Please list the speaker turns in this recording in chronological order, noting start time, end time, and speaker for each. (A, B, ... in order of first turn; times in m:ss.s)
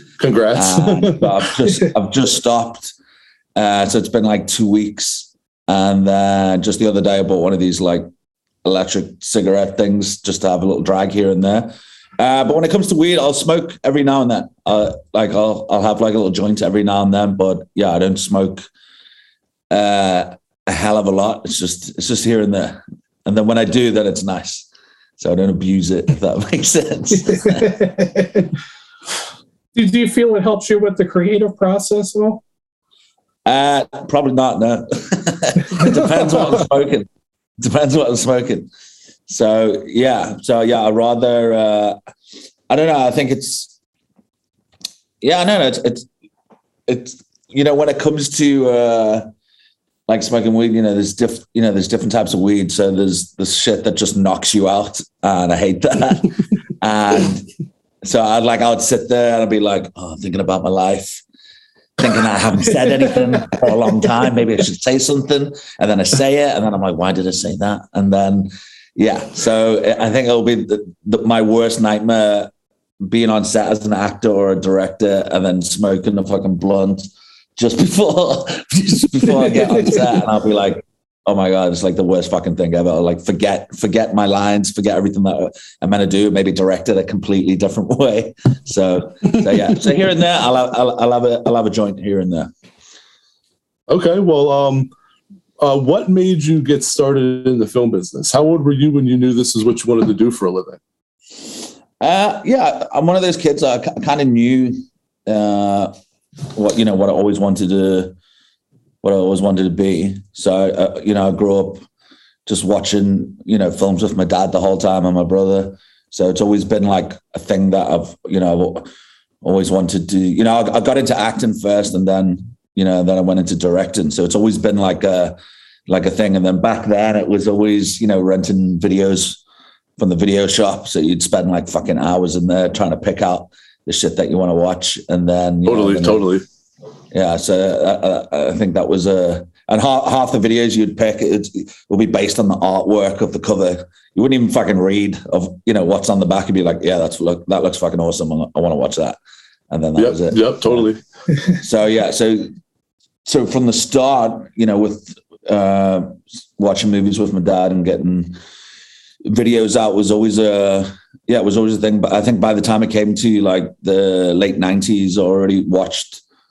0:00.2-0:01.5 A
0:00.5-0:02.9 B
0:03.6-0:08.1 B
0:08.6-0:18.6 B
0:19.7-0:24.6 B
0:25.2-0:27.8 B
0:27.7-0:28.5 C
0:29.7-0:32.4 C
0:33.4-0:37.1 B
0:37.6-0:38.7 B
0:39.3-0:42.0 B
0:42.7-0:43.7 B
0:45.2-0:46.0 B
0:46.9-0:49.3 B
0:50.1-0:57.5 B
0:58.0-1:01.2 B
1:02.0-1:12.5 B
1:13.0-1:17.0 B
1:17.6-1:32.5 B
1:33.9-1:34.9 A
1:35.6-1:40.8 A
1:42.0-1:45.9 B
1:46.5-1:48.1 B
1:49.0-1:51.8 B
1:52.4-1:58.9 B
1:59.4-2:05.4 B
2:05.9-2:09.4 B
2:10.0-2:16.2 B
2:15.6-2:16.4 A
2:17.1-2:29.2 B
2:29.7-2:30.8 B
2:30.0-2:31.0 A
2:31.6-2:32.5 B
2:33.2-2:38.4 B
2:39.2-2:46.2 B